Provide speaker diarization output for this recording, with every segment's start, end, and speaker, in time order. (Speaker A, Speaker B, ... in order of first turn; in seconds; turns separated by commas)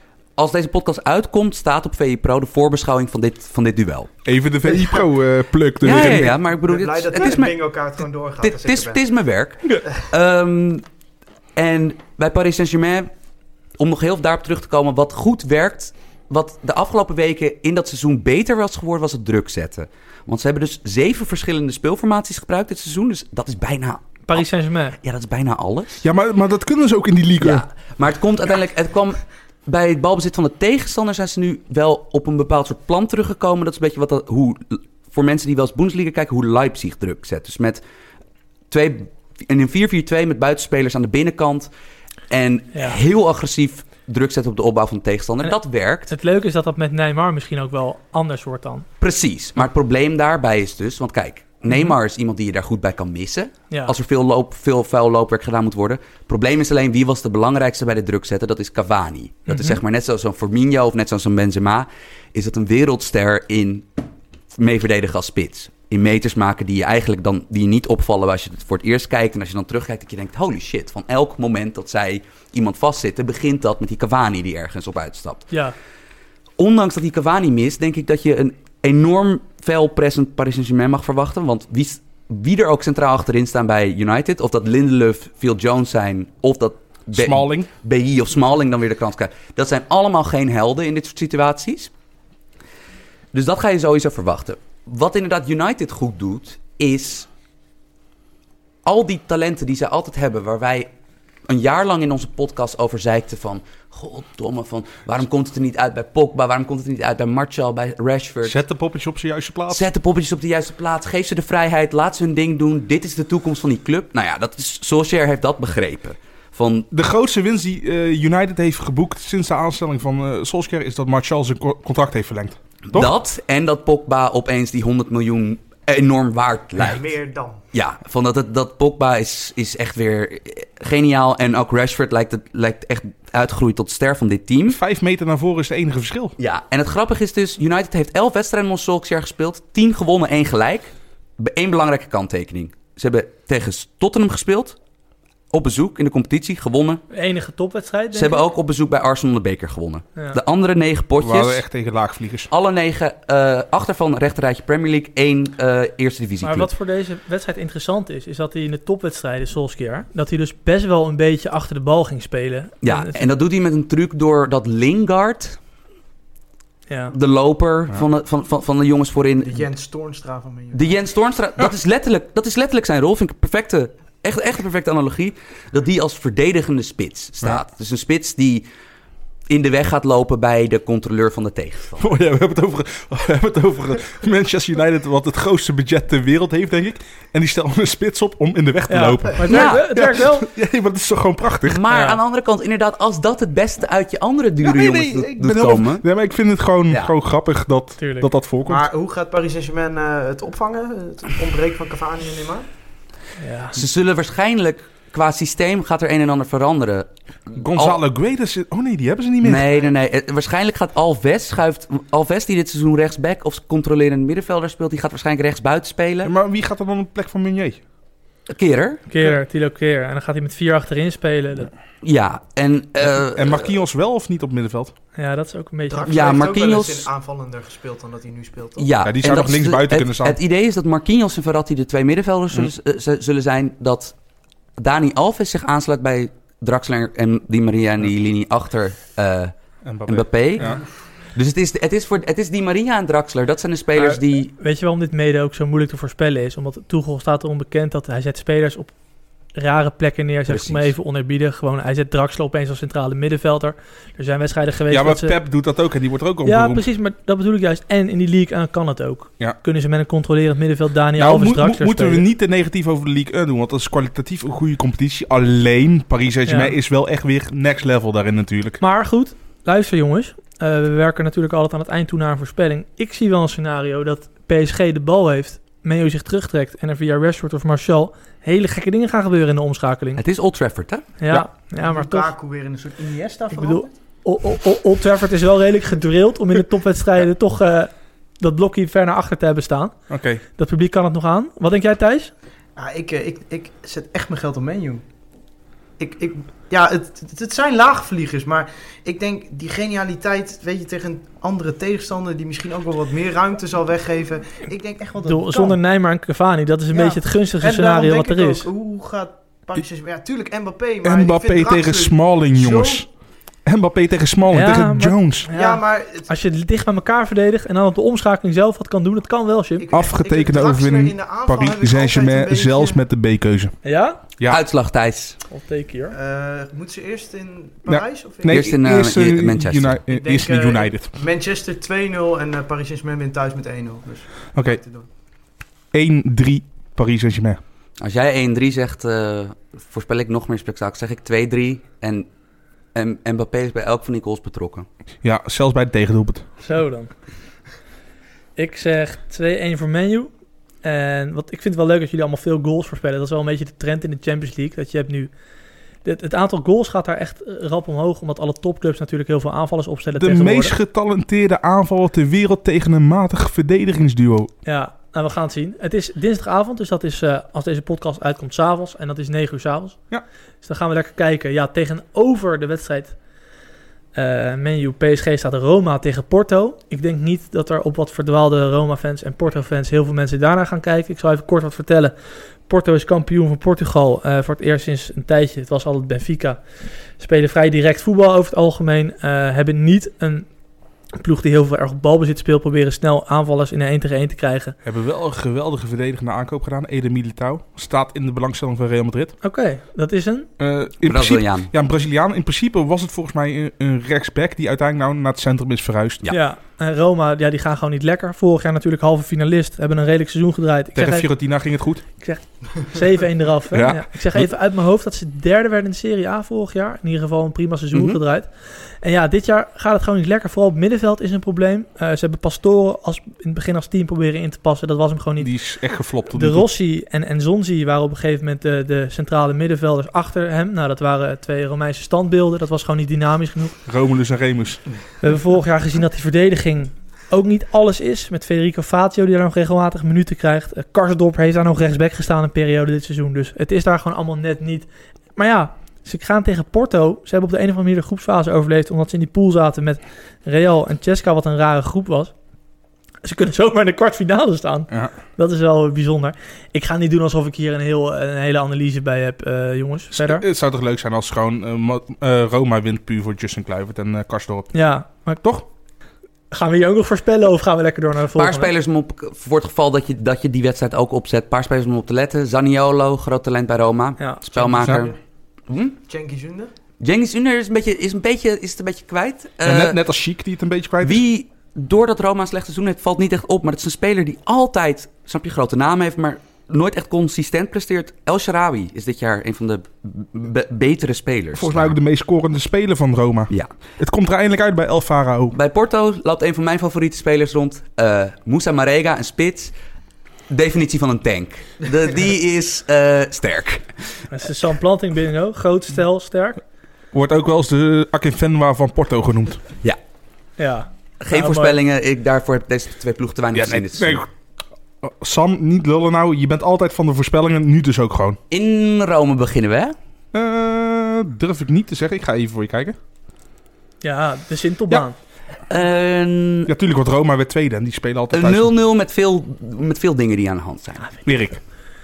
Speaker A: 0.4-4.1, Speaker B: 4.2-6.4, Speaker A: 5.8-7.6, Speaker C: 5.8-9.0, Speaker A: 8.4-10.8, Speaker A: 11.6-13.1, Speaker A: 13.8-24.4, Speaker D: 24.3-25.0, Speaker A: 25.0-26.0, Speaker B: 26.0-27.6, Speaker A: 27.4-37.8, Speaker A: 38.7-41.7, Speaker A: 42.3-46.1, Speaker D: 42.7-43.0, Speaker D: 46.1-48.9, Speaker A: 49.0-63.9, Speaker D: 59.5-59.8, Speaker A: 64.5-75.5, Speaker A: 76.6-91.9, Speaker B: 87.1-87.7, Speaker A: 93.3-97.3, Speaker A: 98.8-100.9, Speaker A: 101.5-108.6, Speaker B: 108.4-109.9, Speaker A: 109.7-116.9, Speaker B: 116.9-123.1, Speaker A: 122.9-127.1, Speaker C: 126.8-127.6, Speaker A: 127.7-134.8, Speaker B: 134.7-136.3, Speaker A: 136.4-144.8, Speaker A: 145.5-147.0, Speaker D: 147.1-148.4, Speaker A: 148.1-151.6, Speaker B: 151.2-152.5, Speaker A: 152.5-156.7, Speaker D: 156.4-163.2, Speaker A: 162.8-165.6, Speaker D: 166.9-167.1, Speaker A: 167.1-169.7, Speaker C: 169.4-171.0, Speaker A: 170.7-178.7, Speaker A: 179.5-182.1, Speaker B: 182.0-191.8, Speaker D: 188.9-190.5, Speaker A: 189.4-189.9, Speaker A: 191.7-196.1, Speaker D: 191.9-192.2, Speaker B: 194.6-198.9, Speaker D: 198.0-198.3, Speaker C: 198.7-202.7, Speaker D: 203.4-203.8, Speaker A: 203.8-208.0, Speaker B: 207.6-209.7, Speaker A: 209.4-216.3, Speaker B: 216.2-217.8, Speaker A: 218.5-219.0, Speaker D: 219.1-221.7, Speaker A: 222.0-223.7, Speaker B: 223.0-224.9, Speaker D: 225.1-226.4, Speaker C: 225.9-228.9, Speaker A: 226.1-227.1, Speaker A: 228.8-234.1, Speaker B: 229.0-230.4, Speaker A: 234.8-239.5, Speaker B: 239.8-240.8, Speaker A: 240.1-240.8, Speaker A: 241.3-244.5, Speaker D: 244.0-248.9, Speaker D: 249.6-255.4, Speaker A: 250.5-250.9, Speaker B: 254.9-256.9, Speaker D: 256.4-262.2, Speaker B: 261.2-268.8, Speaker D: 266.5-266.8, Speaker D: 268.8-280.2, Speaker A: 280.1-281.1, Speaker D: 281.2-282.3, Speaker C: 281.8-283.9, Speaker D: 283.5-289.9, Speaker B: 290.1-290.4, Speaker D: 290.6-292.3, Speaker C: 292.8-295.0, Speaker C: 296.0-305.8, Speaker D: 305.2-308.7, Speaker C: 306.9-313.1, Speaker B: 311.0-313.1, Speaker B: 313.6-315.5, Speaker D: 314.5-319.9, Speaker C: 315.5-316.3, Speaker C: 319.8-323.0, Speaker B: 319.9-323.7, Speaker D: 323.8-324.2, Speaker A: 324.5-325.4, Speaker D: 325.5-326.1, Speaker C: 326.1-328.7, Speaker B: 327.9-331.1, Speaker A: 328.5-330.0, Speaker C: 330.1-335.1, Speaker B: 335.9-337.6, Speaker A: 338.0-342.3, Speaker A: 342.9-344.9, Speaker B: 345.2-346.5, Speaker D: 346.6-347.1, Speaker D: 348.6-350.3, Speaker D: 350.8-355.3, Speaker D: 356.0-360.8, Speaker B: 360.1-364.5, Speaker D: 364.6-370.0, Speaker D: 370.6-373.1, Speaker D: 374.1-382.1, Speaker D: 382.6-386.6, Speaker D: 387.2-390.5, Speaker D: 391.2-394.8, Speaker B: 394.8-399.3, Speaker D: 399.4-400.5, Speaker B: 400.6-406.2, Speaker A: 401.1-401.7, Speaker D: 406.3-411.3, Speaker B: 410.9-412.0, Speaker D: 412.2-425.5, Speaker B: 413.7-414.5, Speaker B: 425.4-426.7, Speaker D: 426.3-433.8, Speaker B: 433.9-434.8, Speaker D: 435.2-452.3, Speaker D: 453.2-460.4, Speaker B: 460.1-464.7, Speaker D: 464.7-465.4, Speaker D: 466.5-468.7, Speaker A: 468.3-475.1, Speaker C: 474.6-475.1, Speaker B: 474.8-475.1, Speaker A: 475.7-476.0, Speaker C: 476.1-476.7, Speaker A: 477.0-480.0, Speaker B: 479.6-481.2, Speaker A: 481.0-491.9, Speaker B: 491.6-495.5, Speaker A: 495.5-499.7, Speaker A: 500.5-504.2, Speaker D: 504.3-506.6, Speaker B: 507.1-509.6, Speaker D: 510.6-511.8, Speaker A: 511.2-514.2, Speaker B: 513.5-514.3, Speaker B: 515.0-518.4, Speaker A: 518.5-519.9, Speaker B: 520.3-523.0, Speaker D: 524.0-525.1, Speaker A: 525.7-526.7, Speaker B: 526.6-528.7, Speaker A: 528.3-531.2, Speaker B: 531.3-531.6